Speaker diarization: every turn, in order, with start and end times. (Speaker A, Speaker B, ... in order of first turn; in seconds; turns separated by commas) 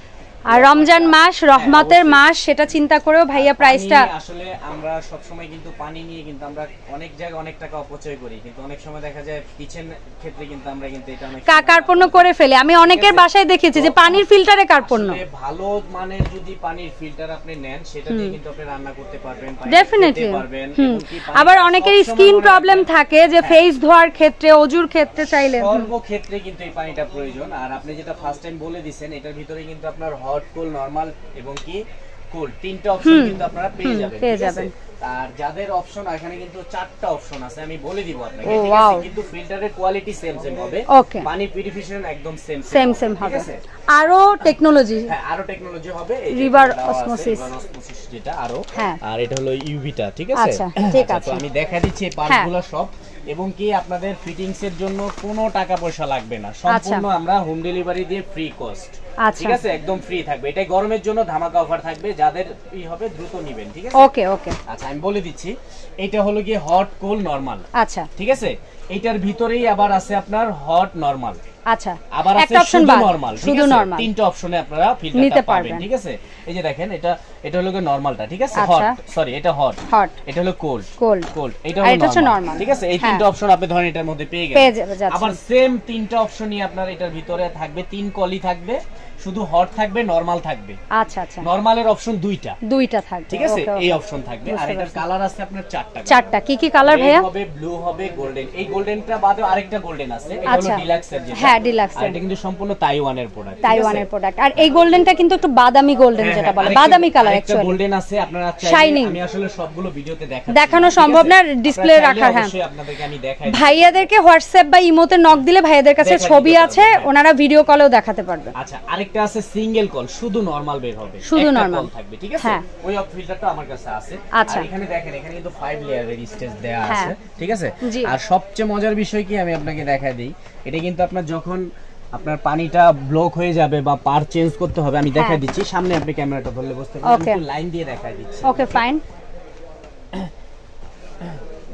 Speaker A: 0.5-2.2, Speaker B: 0.5-4.1, Speaker A: 3.4-12.3, Speaker B: 11.4-15.2, Speaker A: 12.8-14.3, Speaker A: 14.8-22.9, Speaker B: 18.1-18.3, Speaker B: 19.7-25.9, Speaker A: 25.3-43.6, Speaker B: 33.0-34.7, Speaker B: 38.4-39.1, Speaker B: 40.9-41.3, Speaker B: 42.7-45.1, Speaker A: 44.4-64.1, Speaker B: 46.3-47.5, Speaker B: 50.3-51.4, Speaker B: 56.7-57.0, Speaker B: 59.2-59.6, Speaker B: 64.0-64.6, Speaker A: 64.7-67.7, Speaker B: 67.7-68.1, Speaker A: 68.2-71.4, Speaker B: 71.7-74.1, Speaker A: 72.1-90.8, Speaker B: 75.1-75.8, Speaker B: 78.5-79.0, Speaker B: 79.9-80.2, Speaker B: 81.0-81.3, Speaker B: 81.8-83.2, Speaker B: 84.5-85.4, Speaker B: 90.9-91.5, Speaker A: 91.4-92.6, Speaker B: 92.6-93.9, Speaker A: 93.3-96.3, Speaker B: 94.5-95.0, Speaker B: 96.1-97.3, Speaker A: 96.8-104.1, Speaker B: 100.5-100.8, Speaker B: 101.3-102.2, Speaker B: 103.6-107.7, Speaker A: 106.2-114.1, Speaker B: 108.6-109.2, Speaker B: 110.5-112.5, Speaker B: 113.5-118.5, Speaker A: 116.0-117.1, Speaker A: 118.5-138.8, Speaker B: 121.2-121.9, Speaker B: 124.3-124.7, Speaker B: 126.8-127.1, Speaker B: 127.8-128.1, Speaker B: 135.1-135.4, Speaker B: 137.0-137.4, Speaker B: 138.4-139.0